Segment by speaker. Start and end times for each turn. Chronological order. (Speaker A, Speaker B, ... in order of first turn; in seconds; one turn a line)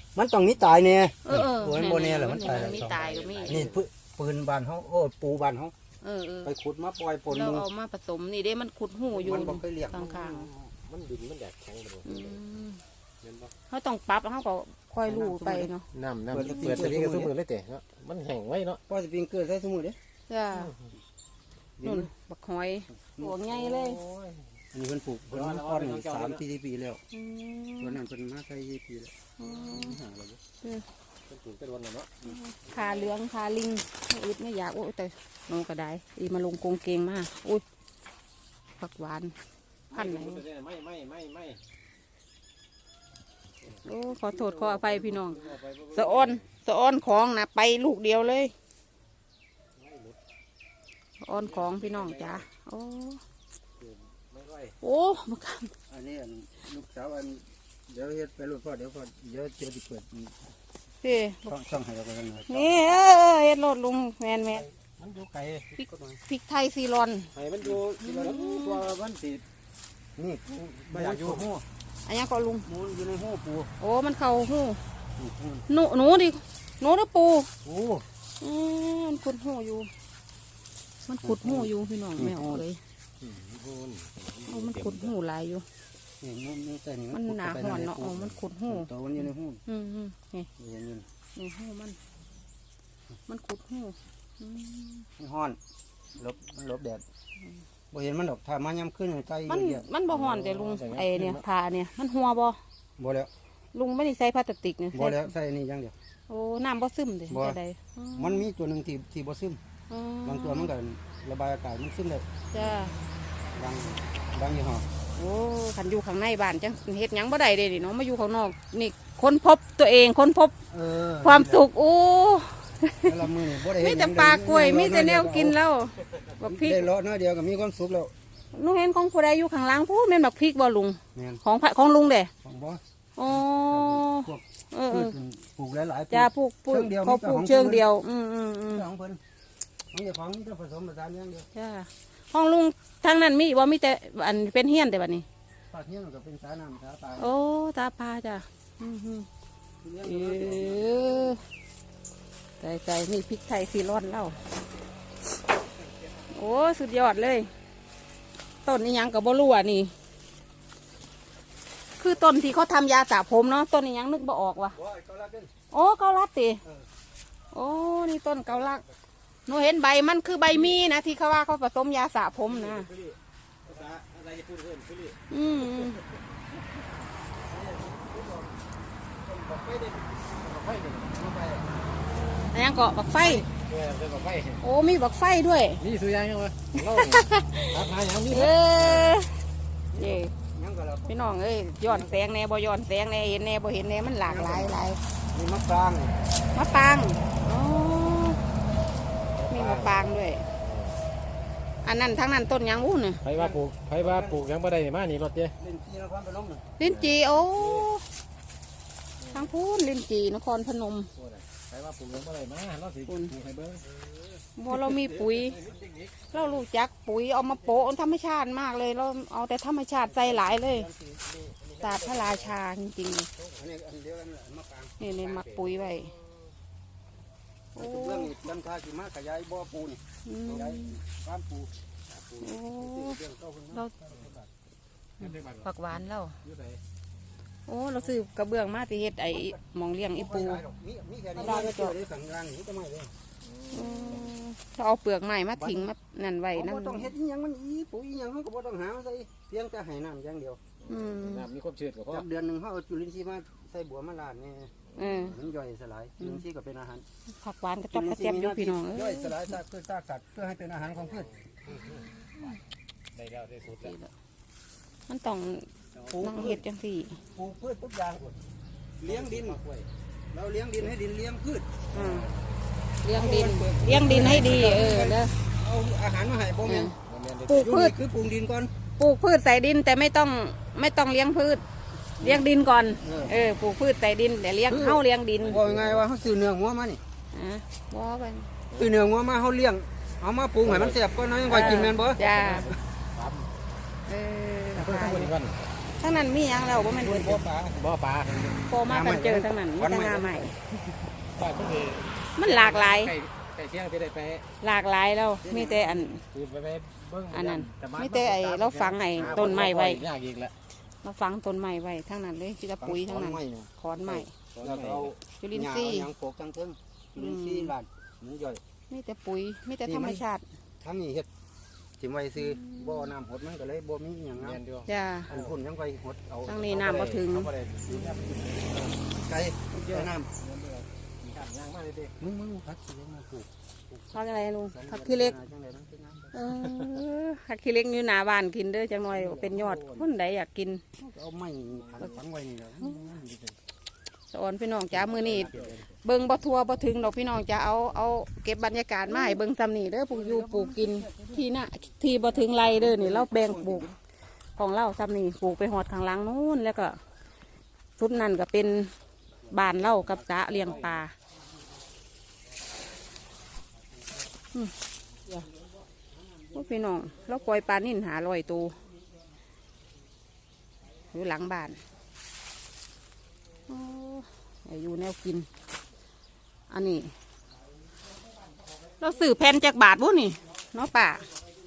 Speaker A: 0.1-5.7
Speaker B: 1.3-3.7
Speaker C: 2.4-3.8
Speaker B: 6.0-6.5
Speaker A: 6.4-7.7
Speaker B: 7.3-10.5
Speaker A: 9.1-10.2
Speaker C: 10.2-12.4
Speaker B: 12.1-12.8
Speaker C: 13.2-13.5
Speaker B: 13.7-15.8
Speaker A: 15.1-15.7
Speaker C: 15.9-18.8
Speaker A: 16.3-17.3
Speaker A: 18.9-20.0
Speaker B: 20.3-20.7
Speaker C: 20.6-20.8
Speaker A: 21.8-22.1
Speaker B: 21.8-24.0
Speaker A: 23.0-23.6
Speaker C: 23.5-24.5
Speaker A: 24.7-27.0
Speaker C: 25.3-26.4
Speaker B: 27.1-28.0
Speaker A: 27.8-30.4
Speaker B: 29.4-30.0
Speaker C: 31.3-32.1
Speaker B: 32.2-37.6
Speaker B: 38.8-39.3
Speaker C: 39.9-41.6
Speaker B: 39.9-40.4
Speaker C: 43.7-46.4
Speaker B: 43.8-48.5
Speaker C: 49.8-50.2
Speaker B: 51.2-53.2
Speaker C: 51.4-52.4
Speaker C: 53.8-54.8
Speaker B: 54.8-55.7
Speaker A: 55.9-60.4
Speaker B: 61.0-61.5
Speaker A: 61.5-62.9
Speaker B: 62.5-64.7
Speaker C: 65.0-65.7
Speaker B: 65.8-67.3
Speaker A: 65.9-66.2
Speaker C: 67.3-69.4
Speaker A: 67.6-69.0
Speaker B: 68.0-68.8
Speaker A: 70.2-71.7
Speaker C: 70.9-71.5
Speaker B: 72.1-72.7
Speaker A: 72.7-73.7
Speaker B: 73.8-74.8
Speaker A: 75.2-75.7
Speaker B: 75.7-77.5
Speaker C: 77.7-78.0
Speaker B: 78.4-79.9
Speaker B: 81.1-82.8
Speaker A: 81.2-82.6
Speaker C: 83.2-85.1
Speaker B: 84.5-85.7
Speaker A: 86.2-89.6
Speaker B: 87.1-88.9
Speaker B: 89.7-90.5
Speaker A: 90.6-91.0
Speaker B: 91.4-92.0
Speaker B: 93.3-95.1
Speaker A: 95.2-95.6
Speaker A: 96.2-97.0
Speaker A: 97.9-99.9
Speaker B: 99.5-102.6
Speaker C: 100.1-101.4
Speaker A: 103.0-103.3
Speaker B: 103.7-105.3
Speaker A: 104.9-105.9
Speaker B: 106.3-108.5
Speaker A: 107.3-107.6
Speaker A: 108.2-109.6
Speaker B: 109.9-110.7
Speaker A: 110.2-112.2
Speaker B: 112.5-112.9
Speaker A: 113.5-114.9
Speaker B: 115.2-120.5
Speaker A: 120.7-121.6
Speaker B: 121.2-126.9
Speaker A: 123.0-125.6
Speaker A: 126.4-128.1
Speaker B: 128.5-132.3
Speaker A: 131.1-131.4
Speaker A: 132.4-137.8
Speaker B: 133.2-135.2
Speaker B: 136.1-138.8
Speaker A: 138.7-139.2
Speaker A: 139.9-141.5
Speaker B: 141.5-145.2
Speaker A: 145.7-147.3
Speaker B: 147.2-149.3
Speaker A: 149.8-151.1
Speaker B: 150.0-151.4
Speaker B: 152.6-154.4
Speaker B: 156.3-157.5
Speaker B: 158.7-159.9
Speaker B: 162.0-164.8
Speaker A: 164.8-165.5
Speaker B: 165.7-166.6
Speaker B: 167.5-168.8
Speaker B: 169.5-172.9
Speaker C: 172.4-176.0
Speaker B: 175.3-176.0
Speaker A: 177.5-178.6
Speaker A: 179.2-180.2
Speaker C: 180.4-181.1
Speaker A: 181.1-181.7
Speaker B: 182.5-183.5
Speaker C: 183.2-184.6
Speaker B: 184.6-185.8
Speaker C: 185.8-189.2
Speaker B: 186.8-189.4
Speaker A: 189.9-191.2
Speaker B: 190.0-190.3
Speaker B: 191.1-195.0
Speaker A: 191.8-192.2
Speaker A: 194.2-194.8
Speaker A: 195.3-196.2
Speaker B: 196.5-198.4
Speaker C: 199.4-200.0
Speaker B: 199.5-200.5
Speaker C: 200.6-201.0
Speaker B: 201.8-203.2
Speaker C: 203.2-205.6
Speaker A: 203.3-204.5
Speaker A: 205.6-206.7
Speaker B: 206.8-208.0
Speaker C: 206.8-207.9
Speaker C: 209.2-209.5
Speaker B: 209.3-211.1
Speaker C: 211.2-213.9
Speaker B: 213.1-213.3
Speaker B: 214.6-215.6
Speaker C: 214.7-216.6
Speaker B: 216.3-220.9
Speaker A: 220.1-221.2
Speaker C: 221.2-222.6
Speaker B: 221.8-223.3
Speaker A: 223.6-225.0
Speaker B: 225.0-226.1
Speaker C: 225.2-226.1
Speaker B: 227.8-228.3
Speaker A: 227.8-231.7
Speaker B: 230.2-231.0
Speaker A: 232.4-234.5
Speaker B: 232.4-233.2
Speaker C: 235.2-236.8
Speaker B: 235.6-236.4
Speaker B: 237.7-240.6
Speaker A: 240.1-243.1
Speaker B: 241.4-241.9
Speaker C: 243.4-244.4
Speaker B: 243.7-247.1
Speaker A: 245.6-245.9
Speaker A: 246.5-250.6
Speaker C: 250.8-252.2
Speaker B: 250.9-251.5
Speaker A: 252.1-257.1
Speaker B: 255.0-255.4
Speaker B: 257.4-259.5
Speaker A: 257.9-261.3
Speaker C: 261.0-262.1
Speaker B: 261.7-262.6
Speaker C: 263.1-263.9
Speaker B: 263.8-264.1
Speaker B: 265.1-267.2
Speaker C: 266.0-266.3
Speaker A: 266.1-266.6
Speaker A: 267.3-268.4
Speaker A: 269.0-269.6
Speaker C: 269.0-269.9
Speaker A: 270.3-272.2
Speaker B: 271.9-272.3
Speaker C: 272.0-272.3
Speaker B: 273.0-275.4
Speaker A: 273.1-276.9
Speaker B: 276.6-276.9
Speaker C: 277.0-277.7
Speaker B: 277.5-277.9
Speaker A: 277.5-278.7
Speaker B: 279.0-281.6
Speaker A: 282.2-282.4
Speaker B: 282.2-285.6
Speaker A: 283.0-283.4
Speaker C: 284.7-286.2
Speaker A: 285.4-287.0
Speaker B: 287.3-288.5
Speaker A: 288.7-292.2
Speaker C: 290.6-291.0
Speaker B: 291.5-292.7
Speaker C: 291.9-293.5
Speaker B: 294.1-295.3
Speaker C: 294.8-295.6
Speaker B: 296.0-297.4
Speaker A: 296.9-297.8
Speaker C: 297.8-298.7
Speaker B: 298.7-300.6
Speaker A: 298.8-300.4
Speaker C: 301.3-304.5
Speaker B: 302.4-303.1
Speaker B: 304.6-306.2
Speaker A: 305.4-306.1
Speaker C: 306.3-310.5
Speaker B: 307.3-310.0
Speaker A: 309.2-309.7
Speaker B: 311.0-314.3
Speaker A: 312.8-318.6
Speaker C: 314.5-315.2
Speaker B: 315.4-316.1
Speaker B: 317.1-317.7
Speaker B: 318.9-320.4
Speaker A: 319.9-320.2
Speaker A: 320.8-321.3
Speaker A: 322.0-324.6
Speaker B: 322.4-323.1
Speaker C: 324.4-325.5
Speaker B: 324.9-325.3
Speaker A: 325.3-326.6
Speaker B: 326.5-327.5
Speaker C: 326.5-329.0
Speaker A: 329.1-330.3
Speaker B: 329.7-330.1
Speaker C: 330.4-332.1
Speaker A: 332.2-334.1
Speaker B: 334.1-335.4
Speaker A: 334.7-336.4
Speaker B: 336.3-340.8
Speaker A: 339.1-340.0
Speaker A: 341.0-343.5
Speaker C: 341.9-342.2
Speaker B: 344.3-353.9
Speaker A: 345.1-345.8
Speaker C: 345.1-345.9
Speaker A: 350.1-351.4
Speaker A: 352.6-354.0
Speaker B: 354.6-357.0
Speaker B: 358.0-358.9
Speaker B: 359.5-361.1
Speaker C: 359.7-361.0
Speaker B: 366.5-368.8
Speaker B: 371.1-371.8
Speaker B: 373.7-375.5
Speaker B: 376.7-377.1
Speaker B: 379.0-381.2